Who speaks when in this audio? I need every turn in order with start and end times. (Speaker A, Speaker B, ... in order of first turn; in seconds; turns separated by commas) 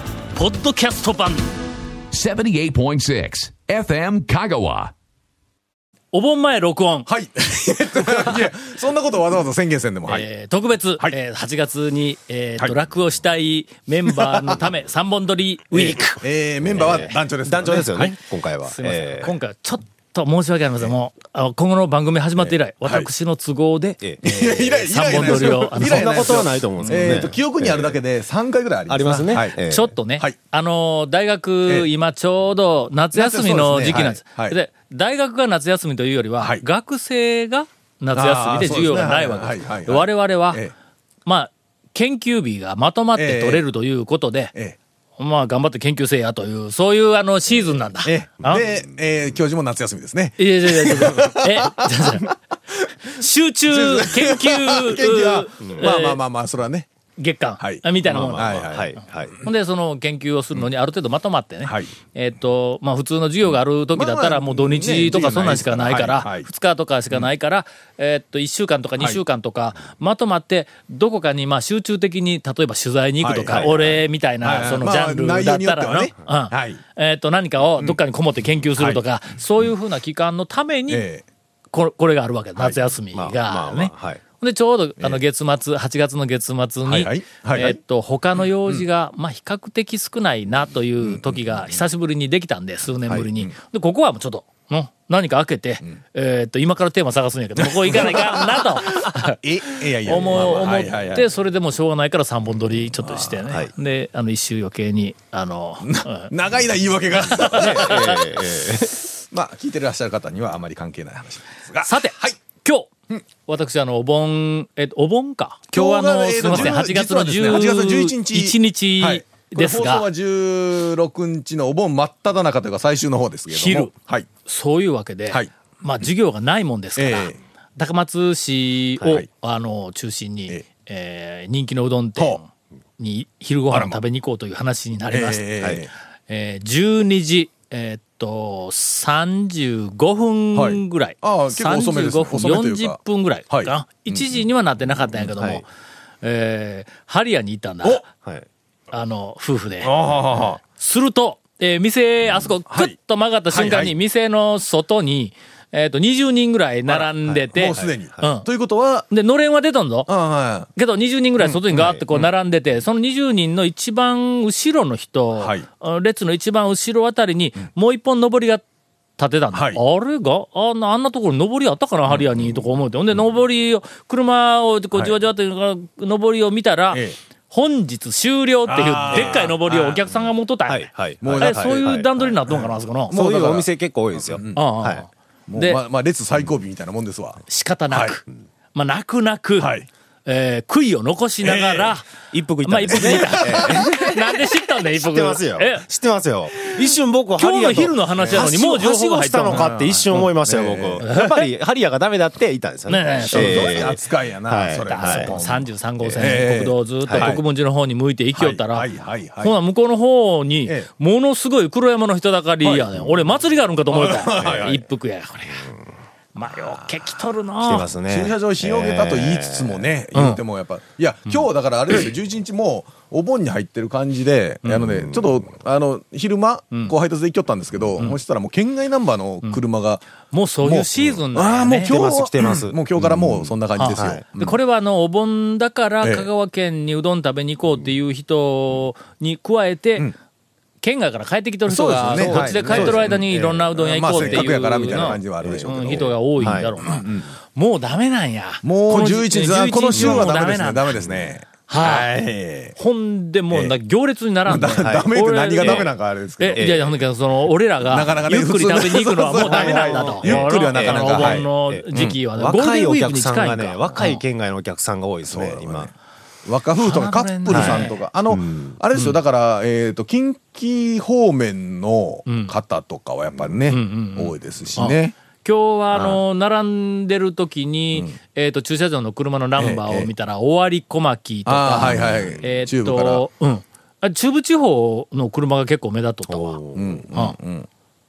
Speaker A: 0.3-1.5, Speaker B: 2.1-4.9, Speaker A: 6.1-7.1, Speaker C: 7.1-10.2, Speaker A: 10.1-16.2, Speaker C: 15.8-18.1, Speaker D: 16.6-19.3, Speaker A: 16.8-17.1, Speaker A: 18.6-27.2, Speaker C: 22.8-23.1, Speaker D: 24.0-28.0, Speaker C: 24.2-29.6, Speaker D: 28.9-29.9, Speaker A: 29.6-40.6, Speaker C: 33.1-34.6, Speaker C: 36.4-36.6, Speaker C: 38.1-40.7, Speaker A: 41.2-44.5, Speaker C: 43.1-43.6, Speaker A: 45.2-48.7, Speaker C: 48.0-52.9, Speaker A: 50.4-52.3, Speaker A: 53.1-56.2, Speaker C: 53.7-56.9, Speaker A: 57.2-81.0, Speaker C: 57.6-58.9, Speaker D: 58.6-59.4, Speaker C: 63.9-66.5, Speaker C: 73.2-73.8, Speaker D: 73.5-73.9, Speaker C: 74.4-76.8, Speaker C: 80.9-81.2, Speaker A: 81.7-106.3, Speaker D: 83.1-84.2, Speaker C: 86.8-87.8, Speaker C: 91.0-91.6, Speaker C: 97.6-101.3, Speaker C: 103.0-103.4, Speaker C: 105.8-108.3, Speaker A: 107.2-108.2, Speaker D: 107.5-109.0, Speaker C: 109.1-112.4, Speaker A: 111.8-112.9, Speaker A: 113.4-120.1, Speaker C: 115.7-124.3, Speaker A: 123.5-123.9, Speaker A: 124.4-135.4, Speaker C: 127.0-127.4, Speaker C: 133.7-134.0, Speaker C: 135.1-135.9, Speaker A: 136.3-145.7, Speaker C: 140.5-143.0, Speaker C: 143.5-144.3, Speaker D: 145.2-145.6, Speaker A: 146.2-148.0, Speaker A: 148.9-149.9, Speaker C: 149.8-150.6, Speaker A: 150.6-158.5, Speaker C: 153.5-153.9, Speaker C: 156.9-159.1, Speaker A: 159.1-160.1, Speaker C: 160.1-160.7, Speaker A: 160.8-168.6, Speaker C: 161.4-162.3, Speaker C: 165.4-165.6, Speaker A: 169.2-183.2, Speaker C: 169.5-169.8, Speaker C: 176.9-177.2, Speaker C: 178.7-180.1, Speaker D: 179.1-179.4, Speaker D: 180.7-182.3, Speaker C: 181.2-181.8, Speaker C: 183.1-184.7, Speaker D: 183.1-185.0, Speaker A: 184.5-185.8, Speaker C: 185.5-188.1, Speaker A: 187.5-192.1, Speaker C: 189.6-189.8, Speaker C: 191.4-191.9, Speaker D: 192.3-194.4, Speaker A: 192.6-195.8, Speaker C: 192.9-193.8, Speaker D: 194.9-205.3, Speaker A: 196.5-199.7, Speaker C: 198.2-198.5, Speaker C: 199.5-201.0, Speaker A: 201.0-201.5, Speaker A: 202.9-203.9, Speaker C: 203.3-207.4, Speaker A: 204.8-208.9, Speaker D: 206.0-206.3, Speaker C: 208.3-209.5, Speaker A: 209.4-215.7, Speaker C: 213.9-214.8, Speaker A: 216.3-217.9, Speaker D: 217.6-219.8, Speaker C: 218.1-230.0, Speaker A: 220.1-220.4, Speaker A: 230.3-231.9, Speaker C: 230.6-234.6, Speaker D: 231.8-234.2, Speaker A: 233.7-240.1, Speaker A: 240.8-250.9, Speaker C: 241.7-247.3, Speaker D: 242.1-246.8, Speaker C: 248.6-252.7, Speaker D: 249.9-250.3, Speaker A: 251.7-252.1, Speaker A: 252.8-264.2, Speaker C: 254.4-256.9, Speaker D: 254.8-255.1, Speaker D: 255.6-255.9, Speaker D: 256.6-256.9, Speaker C: 257.8-262.2, Speaker D: 259.4-265.9, Speaker C: 265.3-265.9, Speaker C: 266.4-275.1, Speaker A: 266.8-268.0, Speaker D: 267.5-268.7, Speaker A: 272.3-272.5, Speaker A: 273.7-286.6, Speaker D: 275.9-276.2, Speaker C: 279.6-280.1, Speaker C: 281.4-283.2, Speaker D: 281.9-282.3, Speaker D: 286.3-287.0, Speaker C: 286.7-287.7